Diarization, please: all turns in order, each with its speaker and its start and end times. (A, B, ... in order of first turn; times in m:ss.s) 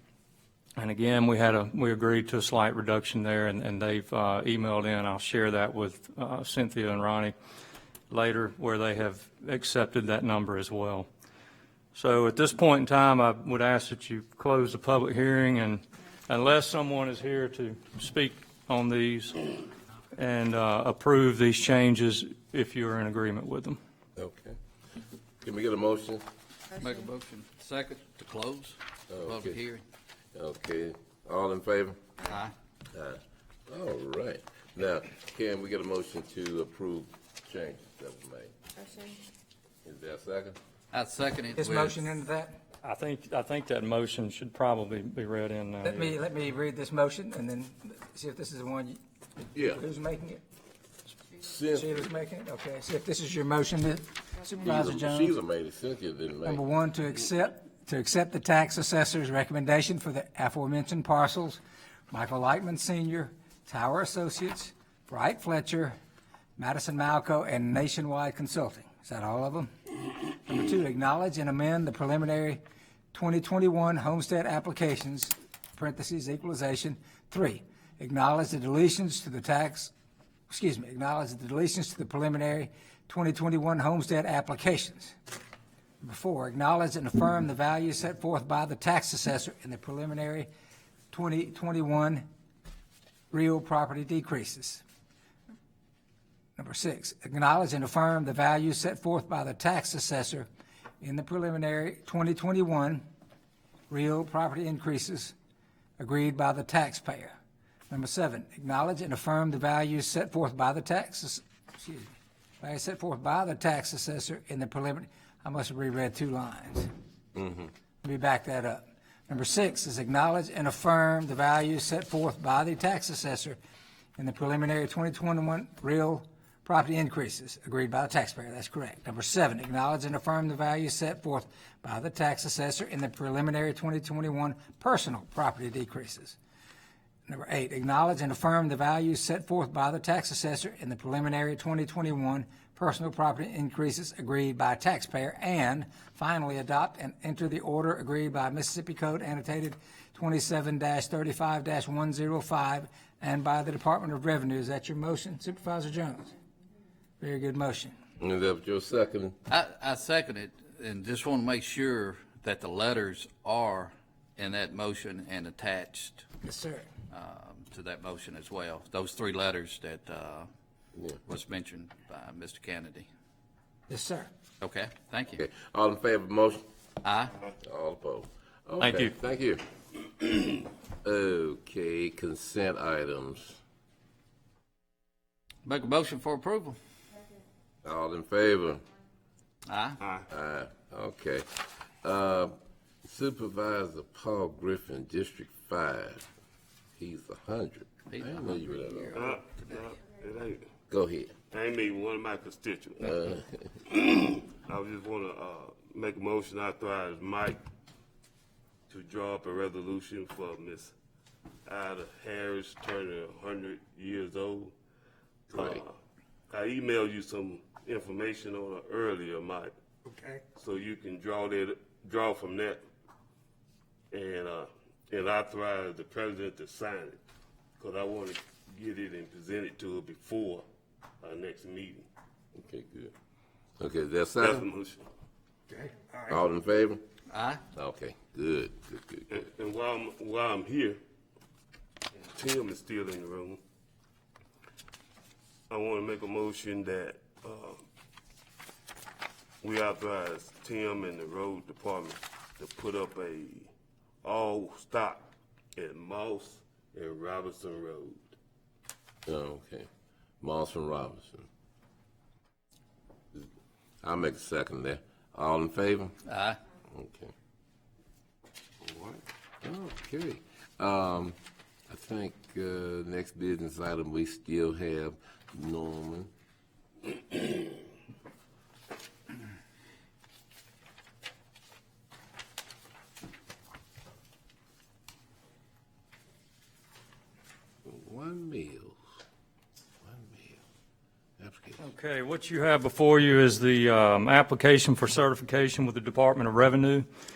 0:00.8-0:07.3 A
0:08.1-0:11.1 A
0:11.9-0:19.4 A
0:20.2-0:23.8 A
0:24.2-0:24.6 B
0:25.4-0:26.3 B
0:26.7-0:29.8 C
0:29.1-0:29.6 B
0:30.3-0:32.0 B
0:32.2-0:32.5 C
0:32.9-0:38.5 B
0:39.8-0:40.6 B
0:40.9-0:42.0 C
0:41.6-0:42.6 D
0:42.8-0:46.2 A
0:45.8-0:49.0 D
0:49.5-0:49.8 B
0:49.6-0:50.4 D
0:51.4-0:52.1 B
0:51.7-0:55.4 D
0:54.6-0:56.6 B
0:56.4-1:05.9 D
1:06.6-1:09.7 D
1:10.3-1:12.6 D
1:13.1-1:19.9 D
1:20.5-1:25.1 D
1:26.0-1:30.5 D
1:31.1-1:32.2 D
1:33.3-1:34.8 D
1:36.6-1:40.5 D
1:41.0-1:43.0 D
1:43.9-1:45.3 D
1:46.0-1:47.4 D
1:47.9-1:56.9 D
1:57.4-1:57.7 B
1:58.0-2:03.6 D
2:04.2-2:16.4 D
2:17.3-2:36.3 D
2:37.2-2:38.0 D
2:38.2-2:39.4 B
2:39.5-2:46.2 C
2:46.4-2:46.9 D
2:47.1-2:50.5 C
2:50.9-2:51.2 B
2:51.2-2:53.1 C
2:53.9-2:54.3 D
2:54.6-2:55.4 C
2:55.3-2:56.6 B
2:57.0-2:57.4 C
2:57.6-2:59.6 B
2:58.8-2:59.1 A
3:01.0-3:03.6 B
3:05.6-3:06.8 C
3:07.8-3:08.8 B
3:09.7-3:10.0 C
3:10.0-3:10.3 E
3:10.3-3:16.2 B
3:17.0-3:19.3 B
3:18.1-3:19.8 C
3:19.1-3:20.6 E
3:20.9-3:21.3 B
3:21.5-3:23.2 E
3:23.0-3:23.6 B
3:23.9-3:27.6 E
3:28.9-3:30.9 E
3:31.6-3:34.7 E
3:35.5-3:36.0 E
3:36.5-3:39.7 E
3:40.5-3:42.8 E
3:44.1-3:47.2 E
3:47.8-3:50.6 E
3:51.2-3:52.1 E
3:52.6-3:53.1 B
3:53.8-3:54.6 B
3:54.4-3:55.0 E
3:56.2-3:57.0 B
3:57.3-3:57.6 C
3:57.7-3:59.4 B
3:59.3-4:01.0 E
4:02.3-4:03.6 E
4:05.7-4:07.8 E
4:09.6-4:13.7 E
4:14.2-4:18.4 E
4:19.2-4:19.9 B
4:20.4-4:21.5 B
4:24.0-4:26.2 B
4:26.2-4:26.6 C
4:26.9-4:27.3 B
4:29.6-4:31.4 B
4:31.9-4:36.3 B
4:47.8-4:49.0 B
4:50.0-4:50.6 B
4:51.4-4:51.8 B
4:51.8-4:57.0 A